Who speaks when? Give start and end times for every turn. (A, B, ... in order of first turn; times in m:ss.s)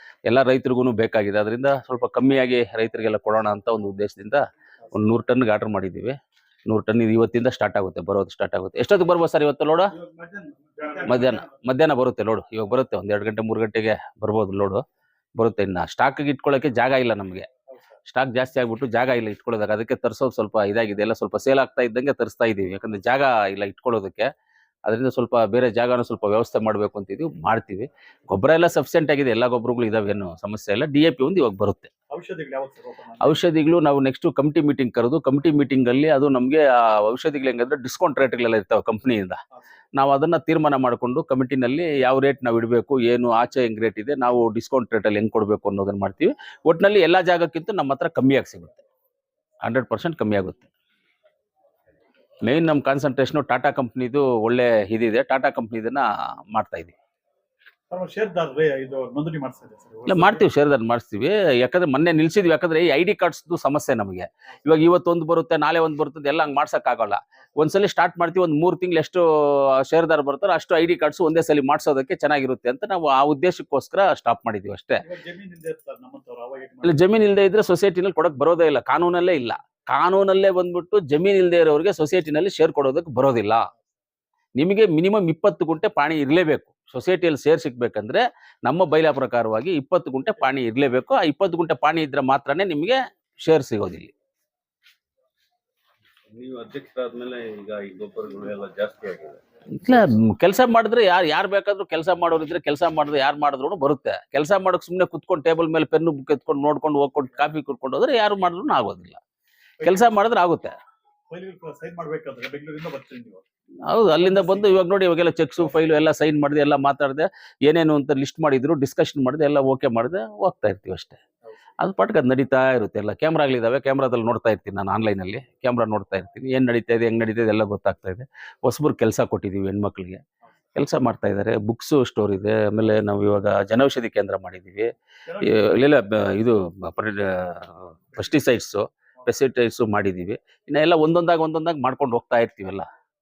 0:00.3-0:06.2 A
0:06.7-0:09.9 A
0:09.9-0:11.5 B
0:11.1-0:14.8 A
0:15.4-0:17.5 A
0:17.7-0:18.0 B
0:18.1-0:24.3 A
0:24.9-0:31.9 A
0:32.1-0:33.4 B
0:33.2-0:39.4 A
0:40.0-0:48.8 A
0:49.6-0:50.7 A
0:52.4-0:57.0 A
0:57.9-1:00.5 B
1:00.1-1:15.0 A
1:15.0-1:17.1 B
1:16.8-1:23.6 A
1:24.6-1:34.1 A
1:36.3-1:39.4 C
1:39.7-1:49.2 A
1:49.8-1:50.2 B
1:49.8-1:50.8 A
1:51.3-1:53.4 B
1:53.9-2:01.2 A
1:54.2-1:54.8 B
2:01.8-2:10.2 A
2:10.8-2:22.9 A
2:15.3-2:15.7 B